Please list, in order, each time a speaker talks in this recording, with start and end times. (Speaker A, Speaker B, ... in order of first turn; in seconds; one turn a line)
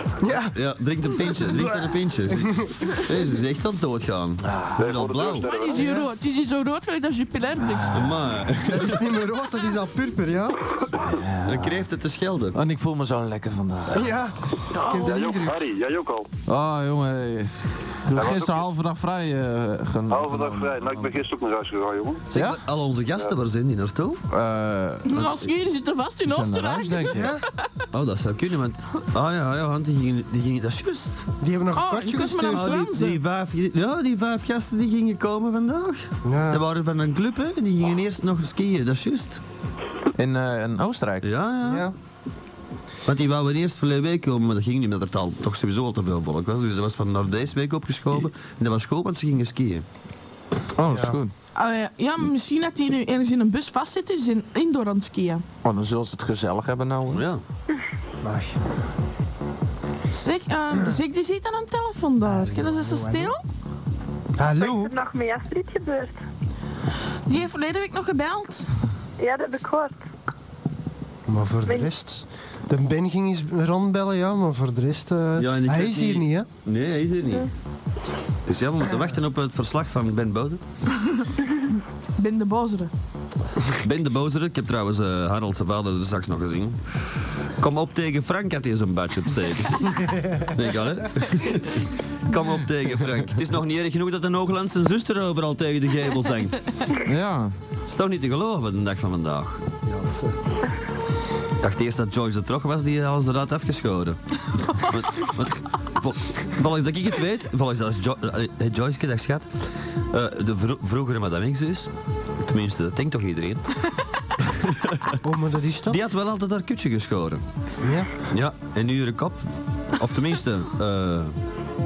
Speaker A: 0.2-0.6
Speaker B: 0.5-5.5
Speaker A: 1.3-2.7
Speaker C: 4.4-4.8
Speaker D: 4.8-5.8
Speaker E: 5.4-8.1
Speaker A: 5.8-6.2
Speaker C: 7.7-8.2
Speaker B: 7.9-9.1
Speaker A: 8.6-10.8
Speaker C: 11.0-11.8
Speaker B: 11.4-12.6
Speaker C: 12.5-14.1
Speaker A: 13.9-15.6
Speaker E: 14.8-15.3
Speaker D: 15.0-16.3
Speaker C: 16.5-21.1
Speaker D: 18.1-18.6
Speaker D: 20.1-22.2
Speaker B: 22.3-24.2
Speaker C: 22.3-22.6
Speaker C: 24.3-25.4
Speaker E: 25.1-27.7
Speaker C: 26.2-27.3
Speaker A: 27.1-27.4
Speaker B: 27.9-31.3
Speaker A: 31.4-32.8
Speaker E: 31.7-33.2
Speaker B: 32.5-39.4
Speaker A: 36.2-36.6
Speaker C: 40.2-41.3
Speaker B: 41.2-41.9
Speaker A: 41.6-41.9
Speaker B: 43.0-49.9
Speaker C: 50.8-51.3
Speaker A: 50.9-51.2
Speaker E: 51.5-55.5
Speaker C: 55.6-57.3
Speaker B: 57.1-57.4
Speaker A: 58.2-58.6
Speaker E: 60.1-63.4
Speaker A: 62.2-63.4
Speaker A: 64.4-64.9
Speaker F: 64.6-66.2
Speaker E: 67.3-68.7
Speaker F: 69.2-70.0
Speaker A: 71.3-76.5
Speaker B: 75.4-77.5
Speaker B: 78.5-80.6
Speaker E: 82.2-82.9
Speaker B: 83.8-86.8
Speaker B: 87.6-96.7
Speaker C: 97.0-97.5
Speaker B: 97.9-99.6
Speaker A: 99.9-100.4
Speaker B: 101.6-109.5
Speaker B: 110.1-113.7
Speaker B: 114.4-115.2
Speaker A: 115.2-116.0
Speaker B: 115.9-117.4
Speaker A: 117.8-118.1
Speaker B: 118.2-119.4
Speaker B: 120.0-121.3